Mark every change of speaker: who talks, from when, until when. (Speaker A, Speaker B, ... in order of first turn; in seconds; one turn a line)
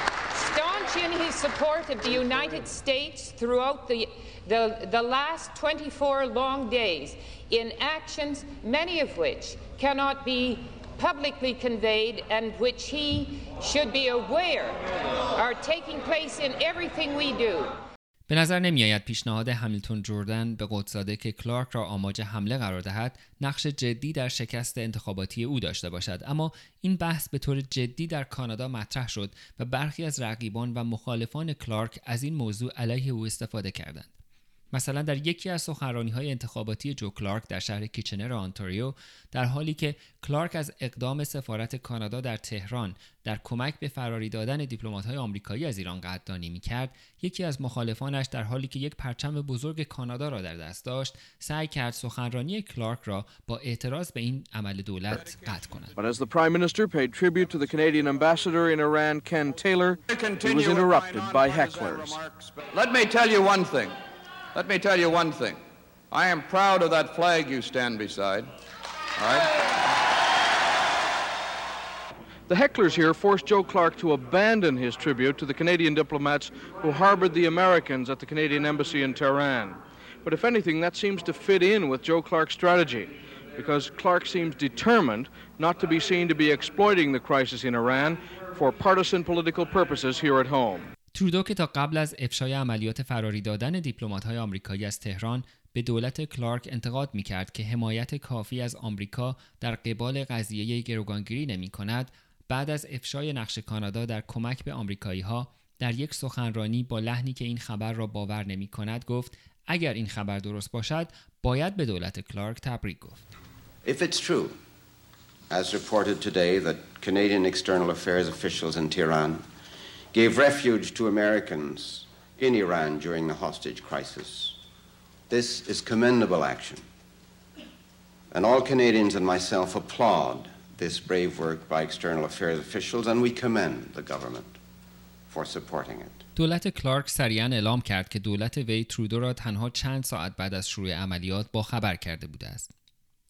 Speaker A: 0.3-14.8
Speaker A: 15.3-17.7
Speaker B: 18.3-34.1
Speaker B: 34.7-55.9
Speaker C: 56.0-62.3
Speaker D: 60.1-63.9
Speaker D: 64.5-65.6
Speaker D: 66.1-68.4
Speaker D: 69.2-69.5
Speaker C: 72.5-90.9
Speaker B: 91.1-113.2
Speaker E: 113.8-114.6
Speaker E: 115.5-119.5
Speaker E: 120.1-124.6
Speaker E: 125.3-126.9
Speaker E: 128.3-134.6
Speaker E: 135.3-136.2
Speaker B: 136.4-142.7